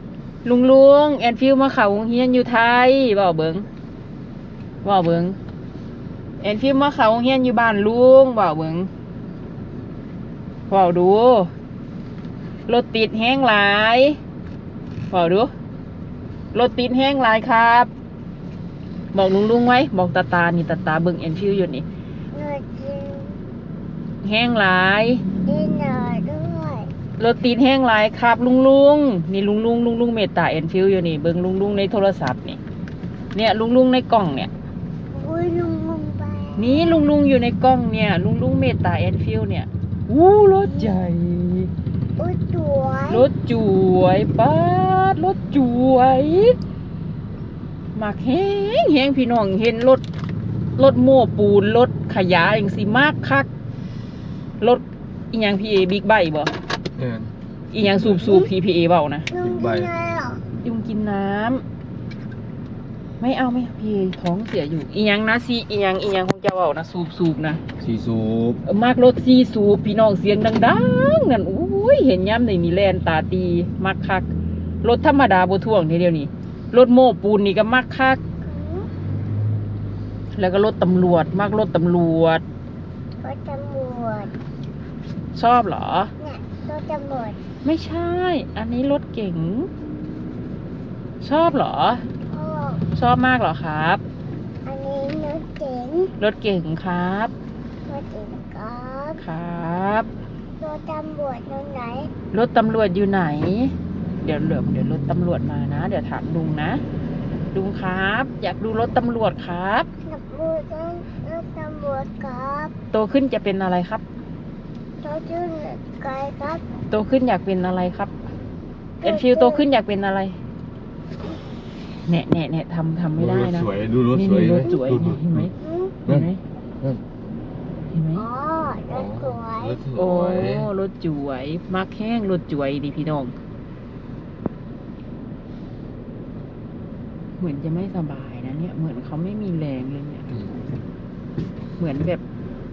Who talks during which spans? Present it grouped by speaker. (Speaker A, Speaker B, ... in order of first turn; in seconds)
Speaker A: 0.4-3.7, 4.8-5.4, 6.4-8.9, 10.7-11.5, 12.7-14.2, 15.1-15.5, 16.5-17.9, 19.1-21.9, 24.2-25.2, 27.2-32.6, 33.3-34.5, 36.6-41.7, 43.1-46.6, 48.0-50.0, 50.8-53.5, 54.6-56.5, 57.7-59.3, 60.6-61.6, 63.2-67.6, 68.7-74.3, 74.8-78.2, 80.4-82.4, 85.3-86.1, 87.6-89.7, 91.2-92.0, 93.0-94.0, 96.2-97.3, 99.2-100.1, 102.3-106.8, 107.5-109.9, 112.9-114.0, 116.9-118.1, 119.0-120.4, 122.1-125.5, 126.1-126.4, 127.9-128.3, 129.9-133.3, 137.4-140.2, 141.8-142.2
Speaker B: 22.3-23.4, 25.5-26.9, 35.1-37.1, 40.6-41.0, 42.2-43.3, 59.3-60.4, 78.4-78.9, 83.2-84.3, 86.2-87.4, 92.3-92.8, 94.7-96.1, 97.9-99.2, 100.6-102.1, 110.0-112.7, 115.0-116.6, 119.0-119.7, 125.6-126.0, 128.1-129.8
Speaker C: 57.0-58.4, 59.4-59.9, 67.8-68.6, 123.2-125.5, 128.9-130.7